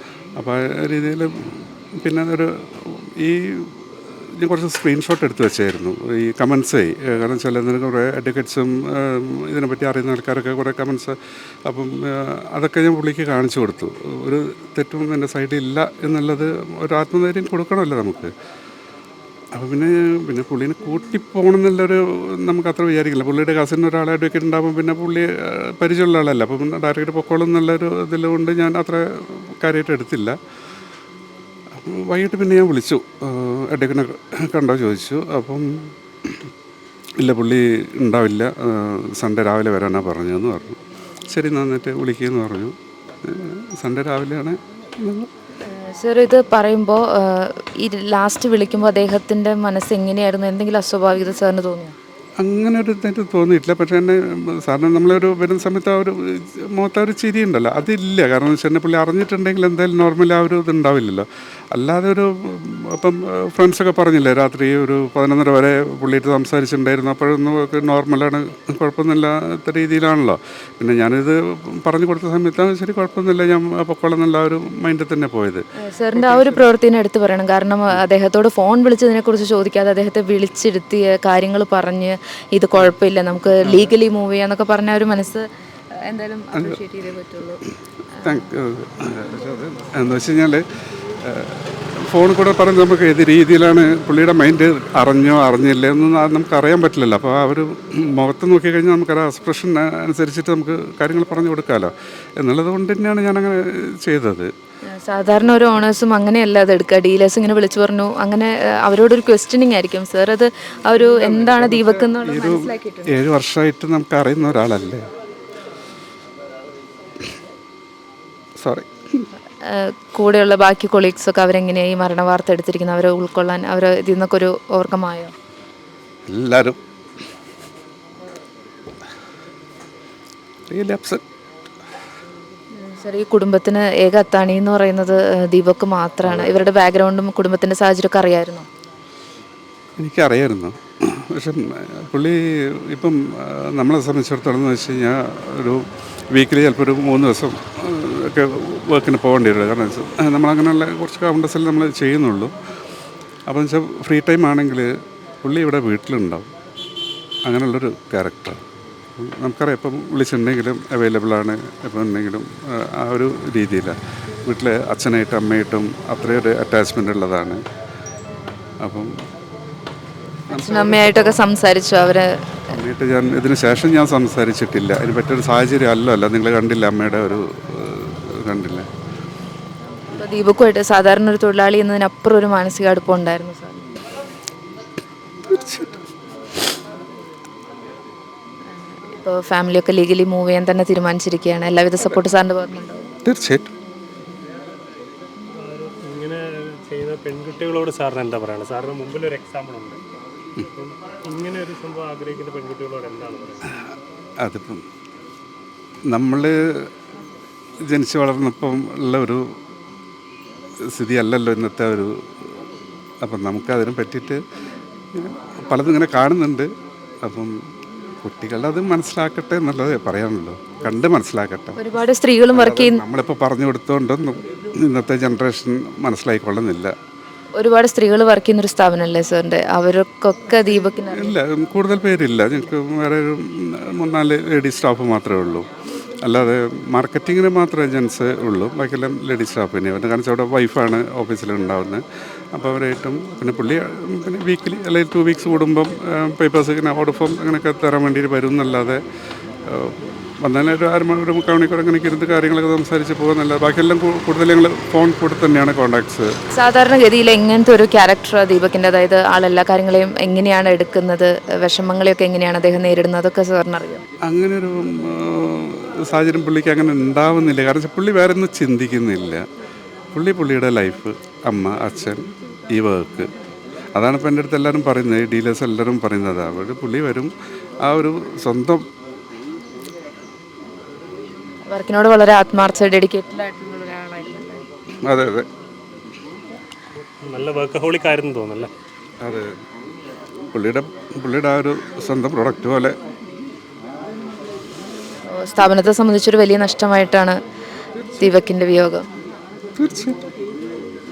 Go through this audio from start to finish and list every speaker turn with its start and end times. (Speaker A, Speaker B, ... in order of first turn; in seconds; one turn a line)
Speaker A: 0.4-18.3
Speaker A: 19.5-30.4
Speaker A: 31.7-36.4
Speaker A: 37.2-45.3
Speaker B: 45.6-52.0
Speaker A: 52.4-76.7
Speaker B: 75.8-85.5
Speaker A: 83.6-83.9
Speaker B: 86.0-87.6
Speaker B: 88.2-88.5
Speaker A: 88.2-90.6
Speaker A: 91.2-104.5
Speaker B: 105.0-113.2
Speaker A: 111.1-115.0
Speaker A: 118.6-119.3
Speaker B: 119.7-125.3
Speaker A: 126.3-126.8
Speaker A: 130.7-131.2
Speaker B: 132.8-138.7
Speaker A: 136.3-136.6
Speaker A: 140.0-152.5
Speaker A: 153.5-156.5
Speaker A: 157.5-158.6
Speaker A: 159.2-167.6
Speaker A: 168.8-169.1
Speaker A: 170.5-171.4
Speaker B: 170.5-172.3
Speaker A: 172.7-178.9
Speaker B: 180.2-183.9
Speaker A: 185.5-186.0
Speaker B: 188.8-193.1
Speaker A: 193.2-193.7
Speaker C: 195.6-200.0
Speaker C: 200.6-203.8
Speaker A: 204.4-204.8
Speaker A: 206.1-206.9
Speaker A: 207.9-209.4
Speaker A: 210.9-212.5
Speaker A: 213.2-214.4
Speaker A: 215.1-216.7
Speaker A: 217.2-217.6
Speaker A: 218.2-221.8
Speaker B: 221.8-223.0
Speaker A: 222.5-226.9
Speaker B: 227.6-231.4
Speaker A: 231.1-235.7
Speaker A: 236.2-242.0
Speaker A: 242.5-249.0
Speaker A: 249.7-256.3
Speaker B: 256.5-264.0
Speaker A: 264.2-269.4
Speaker A: 270.1-273.3
Speaker A: 273.9-278.9
Speaker B: 281.7-284.6
Speaker A: 285.0-285.5
Speaker C: 287.2-288.7
Speaker A: 289.2-289.5
Speaker A: 290.5-292.9
Speaker B: 295.3-297.4
Speaker B: 298.2-299.1
Speaker A: 299.8-300.2